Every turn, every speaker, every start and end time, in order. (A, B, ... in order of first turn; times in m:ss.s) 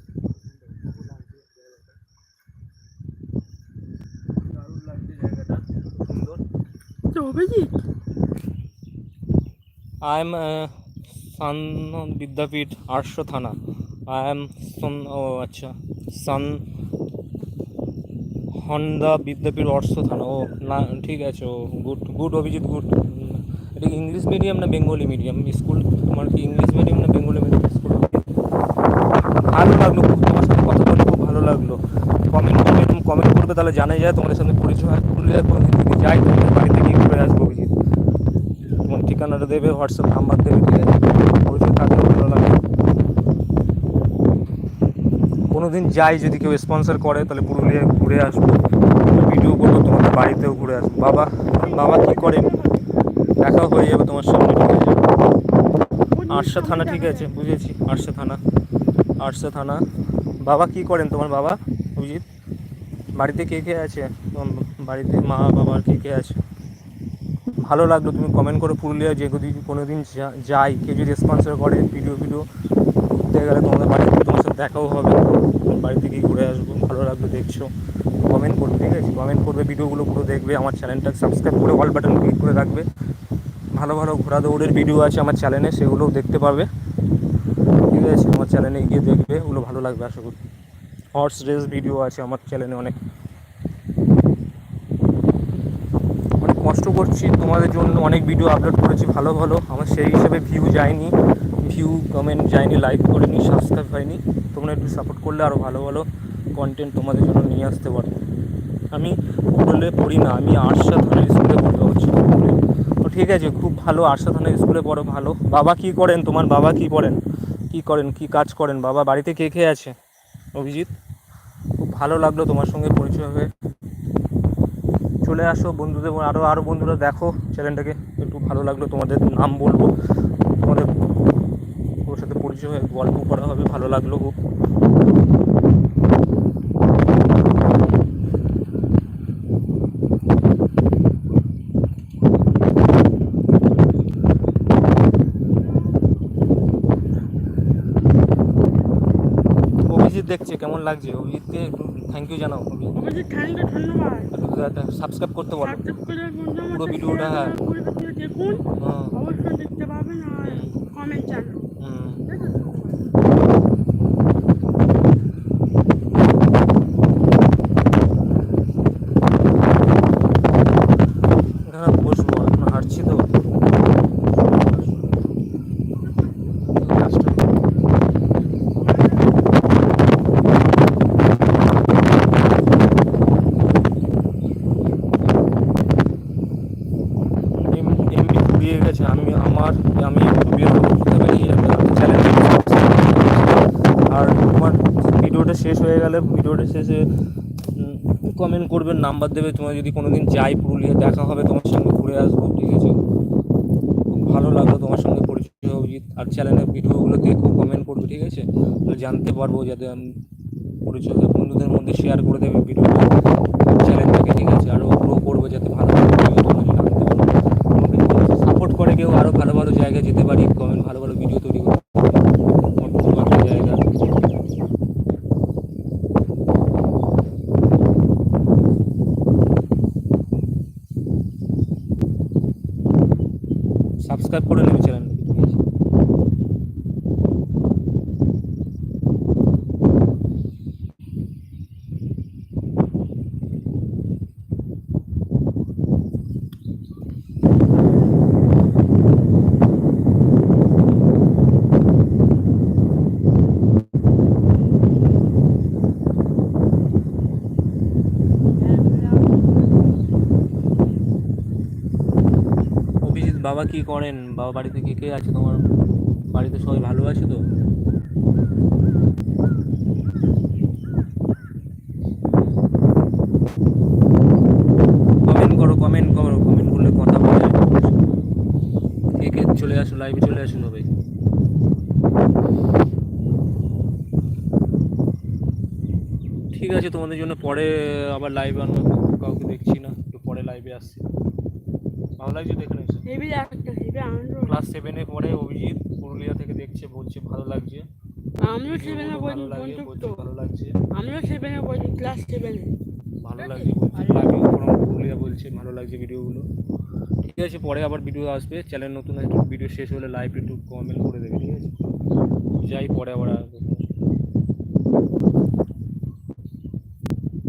0:00.3-0:02.0 A
0:04.4-0:06.4 A
0:07.1-0:07.7 B
0:10.0-0:16.6 A
0:18.5-0:28.3 A
0:29.4-0:37.7 A
0:38.8-0:42.6 A
0:45.5-0:52.5 A
0:51.6-0:53.0 B
0:53.4-0:55.1 A
0:56.1-0:57.3 B
0:56.3-0:58.4 A
0:59.2-0:59.8 A
1:00.4-1:02.2 A
1:03.2-1:06.4 A
1:07.6-1:12.5 A
1:13.1-1:17.7 A
1:18.2-1:22.9 A
1:23.7-1:26.7 A
1:27.9-1:30.4 A
1:31.1-1:33.0 A
1:36.4-1:48.2 A
1:48.9-1:57.2 A
1:57.7-1:59.9 A
2:00.5-2:00.9 A
2:01.8-2:03.5 A
2:05.2-2:09.9 A
2:10.5-2:11.1 A
2:12.0-2:14.4 A
2:29.9-2:33.0 A
2:32.9-2:34.3 B
2:34.3-2:35.8 A
2:35.6-2:41.7 B
2:36.7-2:37.6 A
2:38.8-2:39.2 A
2:40.5-2:40.8 A
2:41.8-2:42.2 A
2:42.2-2:43.2 B
2:51.6-2:53.3 A
2:56.7-2:57.6 A
2:58.9-2:59.2 B
3:07.7-3:17.1 A
3:17.7-3:23.0 A
3:24.1-3:30.2 A
3:30.8-3:33.1 A
3:33.6-3:41.9 A
3:42.8-3:43.8 A
3:54.0-3:55.6 A
4:23.0-4:25.6 A
4:26.3-4:27.4 A
4:35.2-4:38.0 A
4:39.2-4:40.9 A
4:46.5-4:51.0 A
4:52.2-4:53.1 A
4:53.0-4:54.5 B
4:54.4-4:57.9 A
4:58.4-5:00.2 B
4:58.7-5:00.8 A
5:00.9-5:02.8 B
5:03.2-5:06.5 A
5:03.4-5:04.2 B
5:07.2-5:11.9 A
5:12.6-5:13.9 A